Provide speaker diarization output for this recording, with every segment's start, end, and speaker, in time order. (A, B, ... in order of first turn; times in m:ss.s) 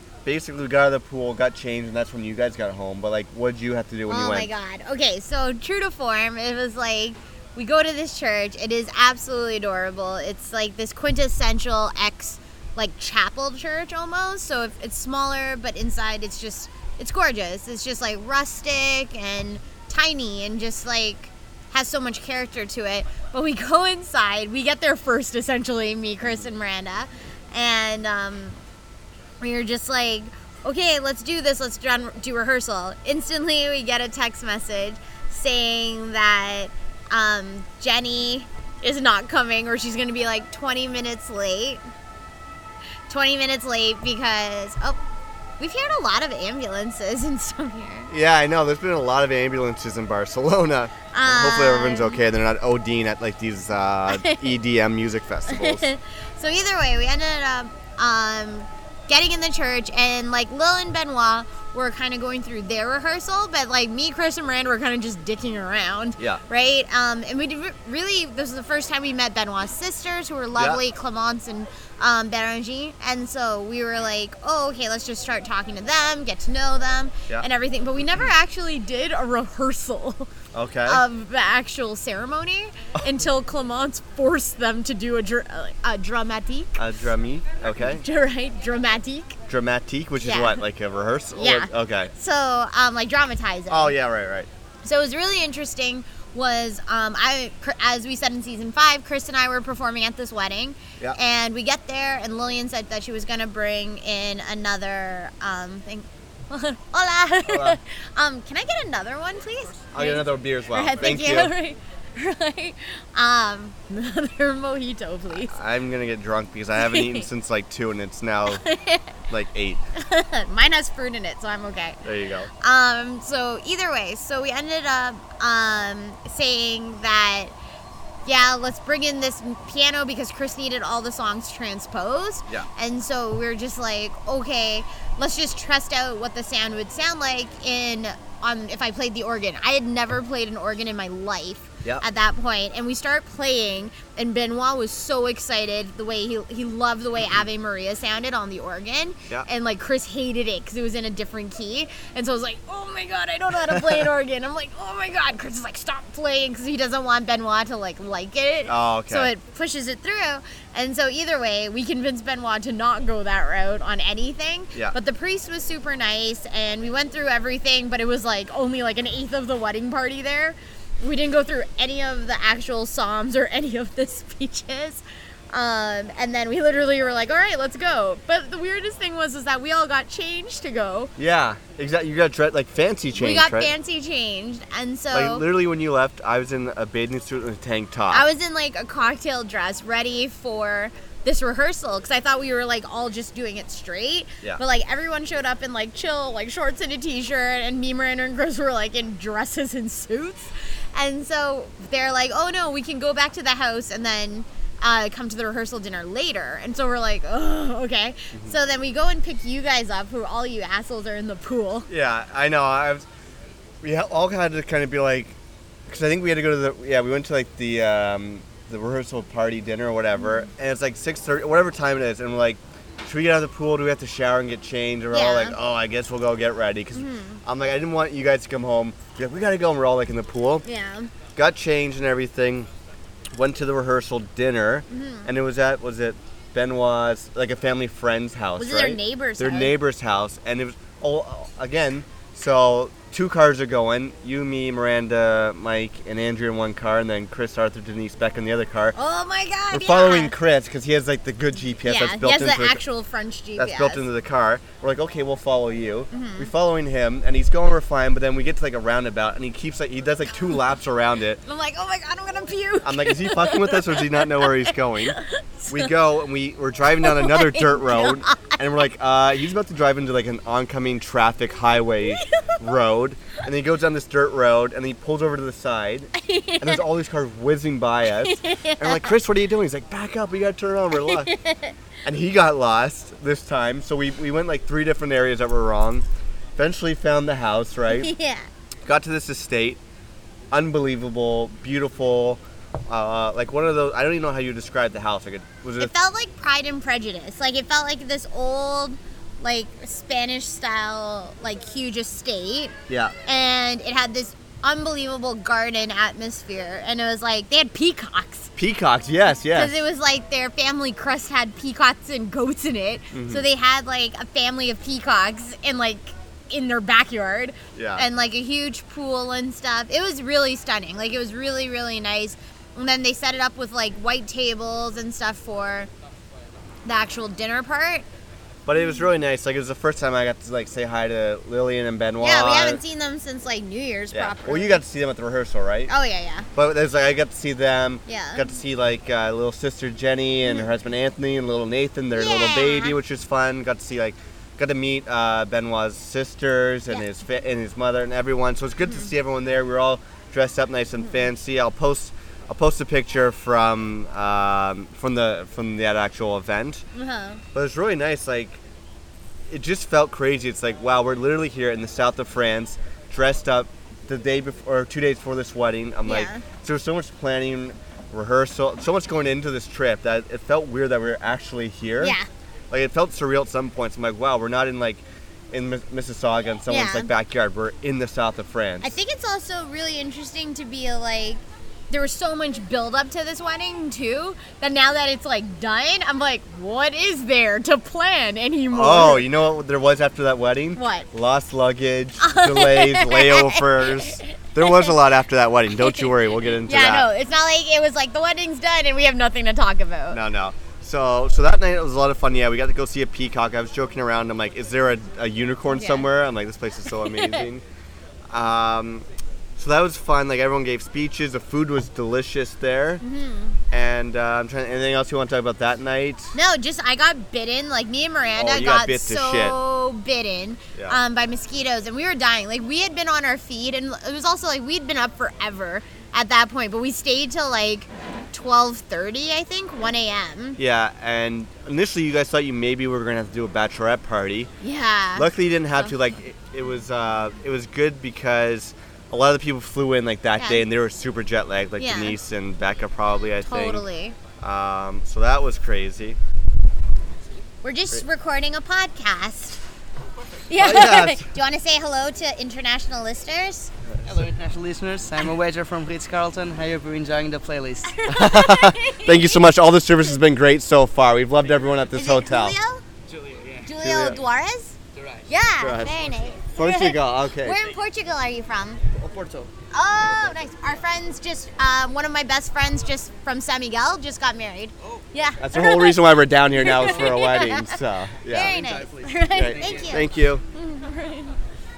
0:00.2-0:04.5 A
0:04.1-0:28.6 B
0:29.4-0:41.8 B
0:43.1-0:45.0 B
0:45.6-0:48.1 B
0:48.1-0:55.9 A
0:51.1-0:52.2 B
0:54.1-0:54.5 B
0:55.5-1:20.3 B
1:10.6-1:10.8 A
1:20.5-1:21.0 A
1:20.8-1:26.8 B
1:26.8-1:28.0 A
1:27.7-1:29.4 B
1:29.5-1:32.1 A
1:30.2-1:30.6 B
1:31.4-1:34.0 B
1:33.7-1:34.5 A
1:34.8-1:55.5 B
1:47.5-1:47.8 A
1:49.9-1:51.5 A
1:55.4-1:58.6 A
1:56.8-1:57.2 B
1:58.5-1:59.1 B
1:59.3-1:59.8 A
2:00.0-2:02.0 B
2:02.0-2:02.5 A
2:02.6-2:07.5 B
2:08.2-3:01.1 B
2:33.6-2:34.1 A
2:38.7-2:39.3 A
3:01.2-3:03.7 A
3:03.1-3:05.4 B
3:05.1-3:08.2 A
3:08.1-3:31.9 B
3:31.9-3:33.1 A
3:33.8-3:50.6 A
3:45.1-3:45.6 B
3:46.9-3:47.4 B
3:50.6-3:51.1 B
3:51.3-3:52.7 A
3:53.3-4:09.0 A
3:54.9-3:55.3 B
3:58.6-3:59.7 B
4:08.9-4:10.3 B
4:09.7-4:12.8 A
4:11.8-4:14.0 B
4:13.6-4:21.4 A
4:16.1-4:16.5 B
4:21.4-4:25.9 B
4:22.8-4:41.3 A
4:27.0-4:28.6 B
4:32.1-4:32.6 B
4:36.1-4:36.8 B
4:38.2-4:39.1 B
4:41.0-4:41.7 B
4:42.0-4:46.0 A
4:46.6-4:48.1 A
4:47.9-4:48.5 B
4:48.8-4:49.8 A
4:50.5-4:55.9 A
4:55.8-5:02.7 B
5:02.9-5:03.2 A
5:03.2-5:08.5 B
5:08.6-5:09.8 A
5:09.5-5:25.9 B
5:13.1-5:13.4 A
5:17.7-5:18.0 A
5:26.8-5:28.0 B
5:28.6-5:32.8 A
5:32.2-5:34.8 B
5:34.1-5:35.9 A
5:35.9-5:36.5 B
5:36.5-5:56.8 A
5:38.0-5:38.5 B
5:42.1-5:43.0 B
5:56.9-5:57.4 B
5:57.5-5:58.6 A
5:59.5-6:12.2 A
6:06.0-6:06.4 B
6:12.0-6:12.3 B
6:12.7-6:18.9 A
6:16.7-6:17.1 B
6:18.8-6:29.3 B
6:28.7-6:37.1 A
6:30.8-6:31.1 B
6:32.2-6:34.9 B
6:35.8-6:36.1 B
6:36.6-6:40.2 B
6:40.1-6:47.6 A
6:45.7-6:46.1 B
6:46.9-6:47.4 B
6:48.3-6:53.0 A
6:53.0-6:53.6 B
6:53.7-6:56.4 A
6:56.3-7:10.6 B
6:58.3-6:59.6 A
7:10.6-7:14.5 A
7:14.6-7:15.9 B
7:15.1-7:23.8 A
7:20.4-7:20.6 B
7:21.8-7:22.2 B
7:23.4-7:24.2 B
7:24.4-7:26.2 A
7:27.6-7:29.6 B
7:30.5-7:33.7 B
7:30.6-7:31.3 A
7:34.0-7:38.0 C
7:37.9-7:39.4 B
7:38.1-7:42.6 A
7:41.9-7:42.8 B
7:43.6-7:44.8 B
7:43.8-7:44.2 A
7:45.3-7:48.8 B
7:45.6-7:47.7 A
7:49.0-7:49.5 C
7:49.7-7:56.0 B
7:55.4-7:58.6 A
7:56.6-8:01.4 B
7:58.5-7:59.2 C
7:59.3-8:00.4 A